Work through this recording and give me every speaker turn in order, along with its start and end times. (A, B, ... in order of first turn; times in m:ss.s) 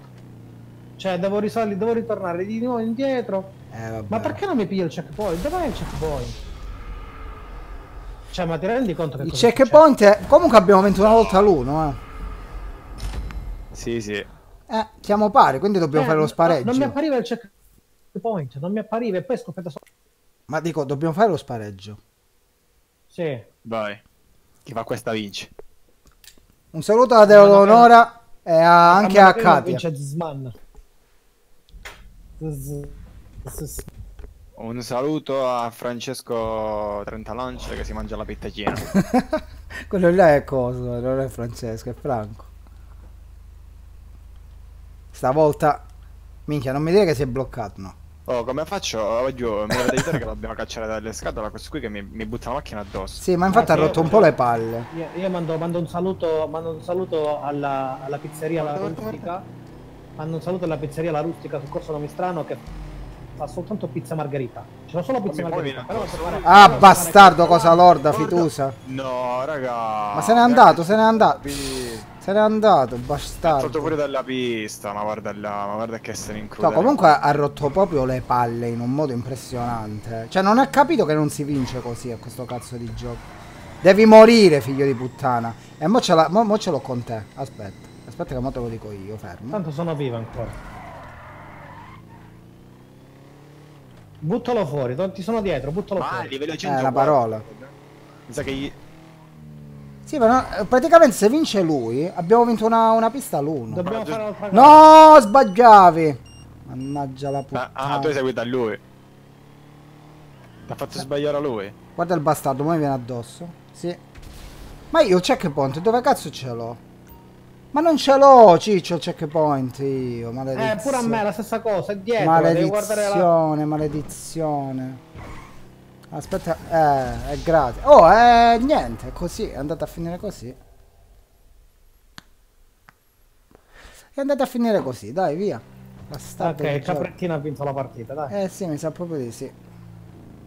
0:01.0-0:03.6 A
0:03.7-0:04.4 B
0:04.1-0:06.4 A
0:08.3-0:09.8 A
0:09.2-0:12.0 B
0:13.7-0:14.3 C
0:14.7-0:17.0 B
0:16.0-0:17.5 A
0:18.1-0:19.8 A
0:20.5-0:22.0 B
0:23.1-0:23.5 A
0:23.6-0:24.0 C
0:24.6-0:25.5 C
0:26.7-0:29.8 B
0:27.3-0:28.0 A
0:28.8-0:30.6 A
0:32.4-0:33.9 A
0:34.6-0:38.9 C
0:38.9-0:42.5 B
0:45.1-0:45.8 B
0:46.5-0:48.0 B
0:48.3-0:53.2 C
0:49.8-0:50.1 B
0:53.2-0:54.9 B
0:53.5-0:54.4 A
0:54.9-0:59.5 A
0:58.6-0:59.3 C
1:00.2-1:02.6 A
1:03.4-1:08.4 A
1:05.3-1:07.0 C
1:06.5-1:08.8 B
1:08.9-1:12.1 C
1:10.1-1:11.4 B
1:12.2-1:14.0 B
1:13.4-1:17.1 C
1:16.6-1:23.2 B
1:23.8-1:29.6 B
1:29.5-1:30.6 A
1:34.2-1:36.3 A
1:36.0-1:37.7 C
1:36.6-1:37.4 B
1:38.3-1:38.8 C
1:40.1-1:43.9 B
1:43.7-1:44.8 A
1:43.8-1:44.2 C
1:44.5-1:48.2 B
1:47.5-1:48.8 C
1:50.7-1:51.8 C
1:52.0-1:54.0 B
1:54.9-1:56.8 B
1:57.7-2:01.2 B
2:00.5-2:03.3 A
2:02.2-2:05.0 B
2:06.1-2:10.6 B
2:14.2-2:17.1 B
2:16.4-2:18.4 A
2:18.3-2:19.6 B